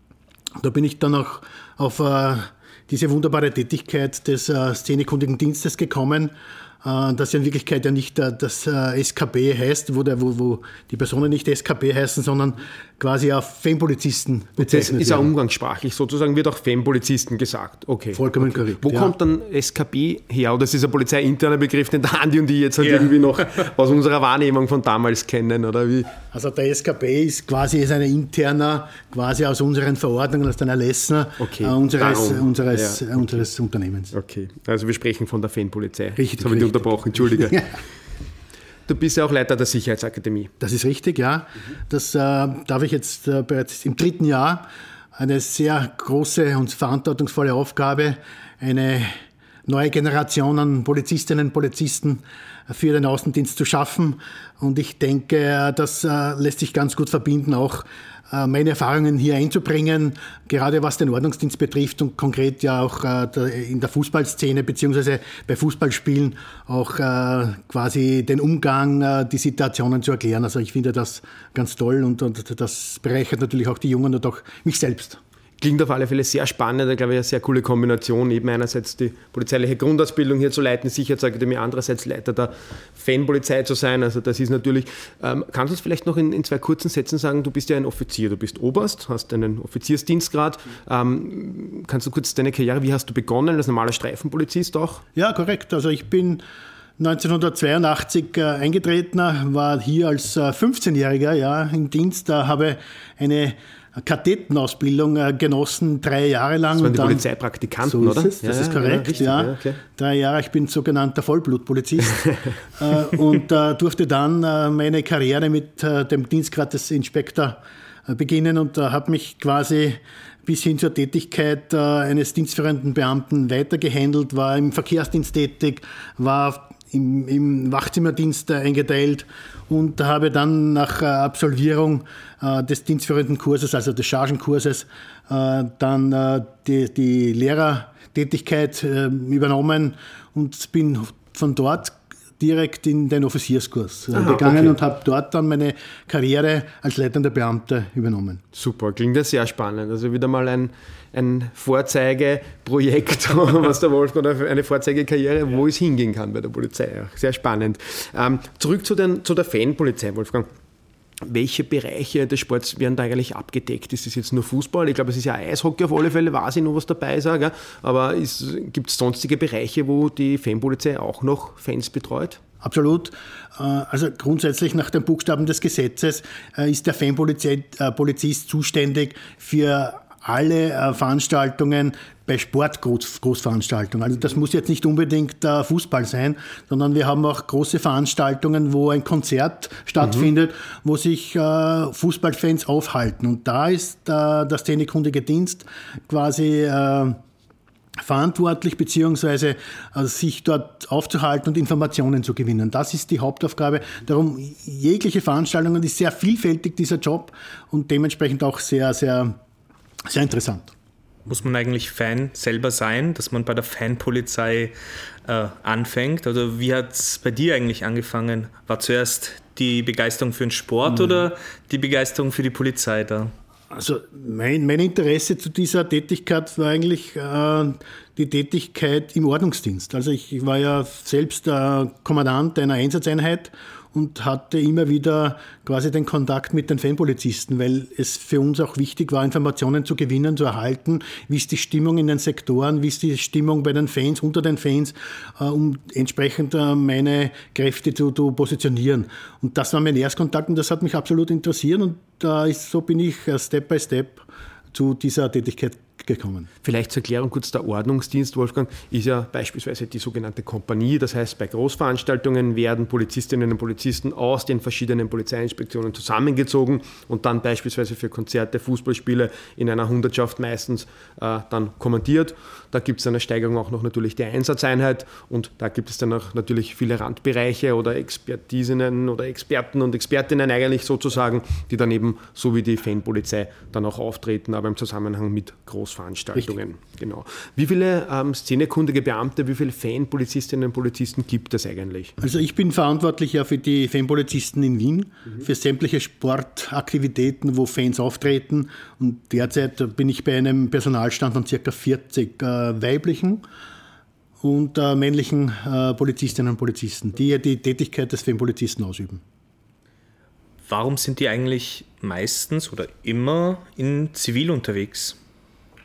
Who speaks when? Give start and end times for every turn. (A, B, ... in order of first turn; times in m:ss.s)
0:00.6-0:15.3 A
0:14.6-0:26.2 B
0:18.1-0:19.1 A
0:22.8-0:23.4 C
0:26.3-0:34.1 A
0:31.4-0:33.4 B
0:34.1-0:37.6 B
0:36.2-0:37.8 A
0:38.9-0:40.5 B
0:40.6-1:15.2 A
1:15.6-1:35.0 B
1:35.2-1:36.4 A
1:37.0-1:47.2 A
1:46.8-1:49.8 B
1:47.8-2:28.4 A
2:24.1-2:24.8 B
2:28.5-2:40.5 B
2:41.2-2:52.4 B
2:52.6-3:17.2 A
3:18.0-3:29.4 A
3:30.1-3:30.7 A
3:31.3-3:43.3 C
3:43.7-4:16.5 A
4:16.6-4:52.2 B
4:52.2-5:03.4 A
5:04.4-5:09.2 A
5:10.7-5:15.2 C